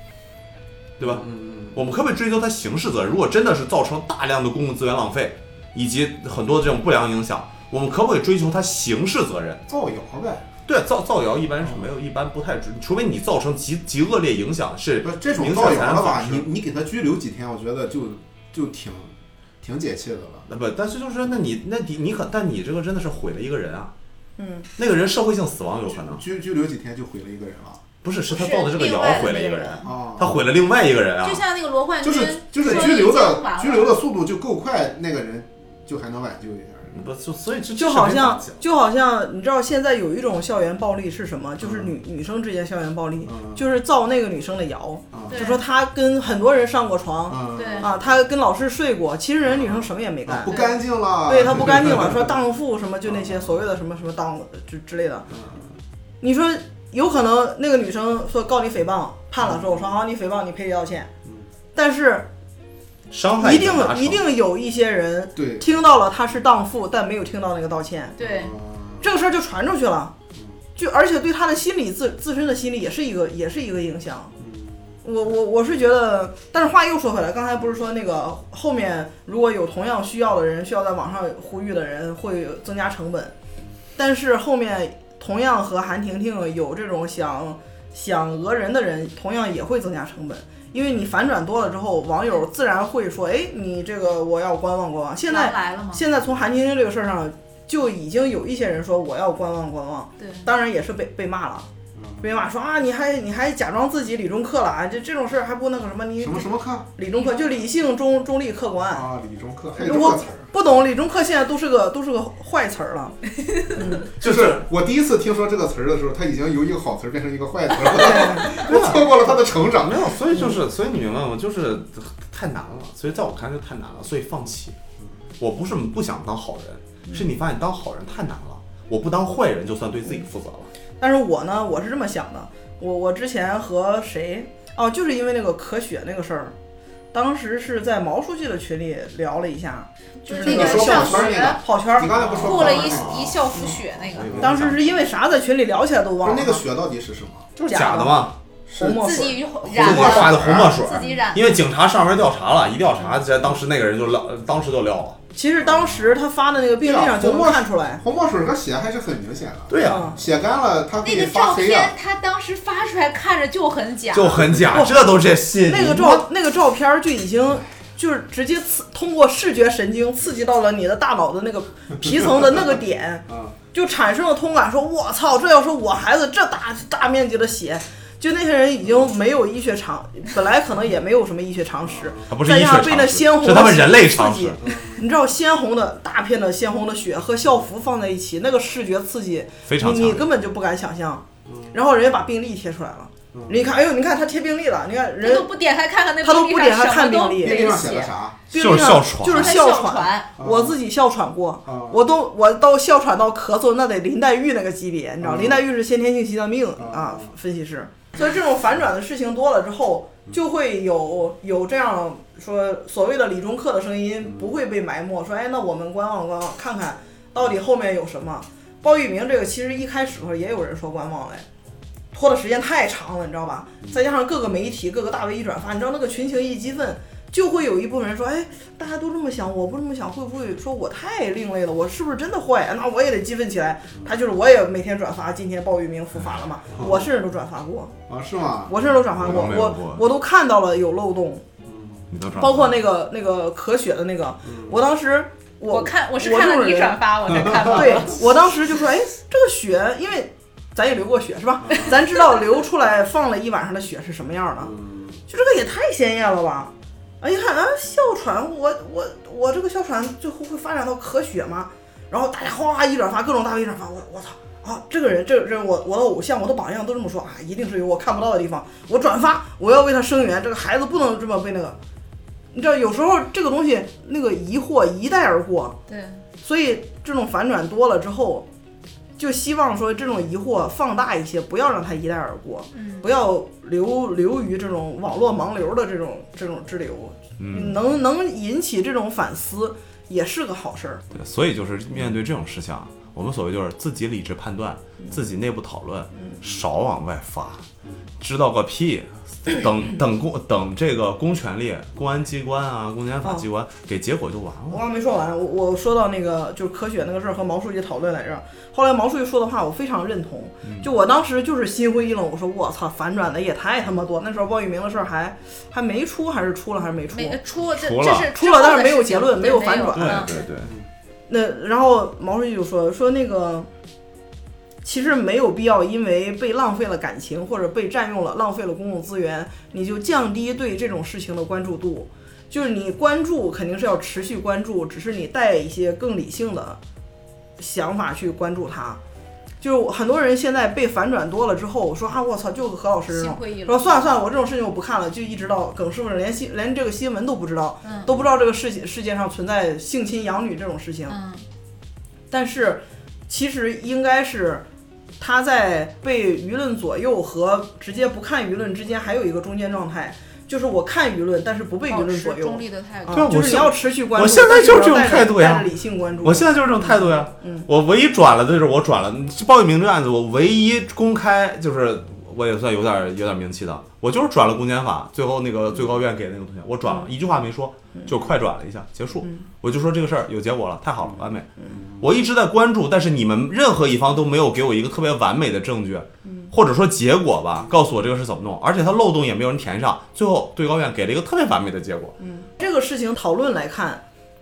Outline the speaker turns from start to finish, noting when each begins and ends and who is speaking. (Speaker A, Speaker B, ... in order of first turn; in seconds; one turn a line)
Speaker A: 1.0-9.7
Speaker B: 1.1-1.8
Speaker B: 9.7-10.5
Speaker A: 10.7-16.5
Speaker B: 15.0-20.5
Speaker A: 20.5-23.9
Speaker C: 24.4-24.7
Speaker A: 24.8-26.2
Speaker B: 26.1-27.8
Speaker A: 28.0-31.4
Speaker D: 28.3-29.8
Speaker B: 29.8-30.4
Speaker D: 31.2-34.0
Speaker B: 32.0-37.0
Speaker C: 32.6-32.9
Speaker A: 36.9-38.6
Speaker C: 37.8-50.6
Speaker B: 41.6-41.9
Speaker B: 43.2-43.6
Speaker B: 45.1-45.4
Speaker D: 45.3-45.6
Speaker B: 47.3-48.1
Speaker D: 47.5-47.9
Speaker B: 49.5-52.4
Speaker D: 50.5-50.8
Speaker C: 51.2-55.3
Speaker B: 53.1-53.5
Speaker B: 55.3-55.7
Speaker C: 56.2-61.1
Speaker B: 59.4-59.8
Speaker C: 61.7-62.3
Speaker A: 63.1-64.2
Speaker C: 63.4-68.2
Speaker B: 65.3-65.6
Speaker D: 68.2-68.5
Speaker B: 68.2-69.0
Speaker C: 69.0-70.1
Speaker C: 70.8-74.3
Speaker B: 74.4-74.9
Speaker C: 75.0-83.3
Speaker C: 84.0-101.7
Speaker D: 95.3-96.0
Speaker D: 100.2-100.5
Speaker B: 101.9-102.2
Speaker C: 102.2-109.0
Speaker B: 106.2-106.9
Speaker D: 107.2-107.5
Speaker B: 108.9-110.5
Speaker C: 109.8-113.2
Speaker C: 113.7-114.1
Speaker B: 114.1-120.1
Speaker A: 114.2-114.7
Speaker C: 118.0-118.5
Speaker A: 118.0-124.8
Speaker C: 120.3-120.6
Speaker A: 125.4-130.7
Speaker C: 131.0-136.5
Speaker C: 137.1-142.1
Speaker D: 140.2-141.6
Speaker B: 140.4-144.7
Speaker A: 142.1-143.3
Speaker D: 142.2-144.4
Speaker A: 144.1-144.8
Speaker C: 144.4-146.6
Speaker B: 146.2-147.5
Speaker A: 147.6-148.3
Speaker C: 147.6-149.4
Speaker B: 148.7-150.8
Speaker D: 148.9-151.5
Speaker A: 149.7-155.2
Speaker C: 155.3-158.0
Speaker B: 155.6-156.1
Speaker B: 156.8-161.9
Speaker A: 159.7-160.1
Speaker C: 159.8-160.2
Speaker D: 161.0-164.5
Speaker A: 164.1-166.2
Speaker C: 164.7-195.5
Speaker B: 173.3-173.6
Speaker B: 181.8-182.3
Speaker A: 182.3-184.6
Speaker B: 184.6-185.0
Speaker A: 189.7-190.2
Speaker B: 191.5-191.8
Speaker B: 193.3-193.7
Speaker D: 195.2-198.1
Speaker C: 196.2-197.8
Speaker B: 197.4-198.4
Speaker C: 198.5-221.4
Speaker A: 198.5-199.6
Speaker D: 199.2-200.3
Speaker B: 200.4-200.8
Speaker B: 201.7-202.0
Speaker B: 205.2-205.6
Speaker B: 206.8-207.3
Speaker B: 214.2-214.5
Speaker C: 222.1-237.9
Speaker B: 236.7-237.1
Speaker B: 238.1-238.8
Speaker C: 238.7-241.4
Speaker A: 239.2-240.0
Speaker B: 241.7-242.1
Speaker A: 242.1-242.8
Speaker C: 242.4-254.7
Speaker B: 244.4-244.8
Speaker D: 245.7-248.3
Speaker B: 254.6-255.2
Speaker C: 255.3-271.8
Speaker C: 272.5-275.8
Speaker D: 275.9-276.2
Speaker C: 276.4-278.5
Speaker C: 279.2-291.0
Speaker D: 282.7-283.1
Speaker A: 287.4-287.8
Speaker A: 291.1-297.6
Speaker A: 298.2-304.8
Speaker C: 304.7-317.4
Speaker D: 317.1-320.4
Speaker A: 317.7-318.3
Speaker C: 318.3-320.3
Speaker A: 319.9-320.7
Speaker C: 321.3-323.7
Speaker C: 324.8-336.8
Speaker C: 337.6-339.0
Speaker C: 339.6-351.2
Speaker D: 343.1-343.8
Speaker D: 347.8-348.1
Speaker D: 351.1-351.4
Speaker C: 352.3-354.6
Speaker C: 355.2-367.7
Speaker D: 361.9-363.3
Speaker A: 363.1-365.7
Speaker A: 366.2-392.1
Speaker C: 392.2-394.0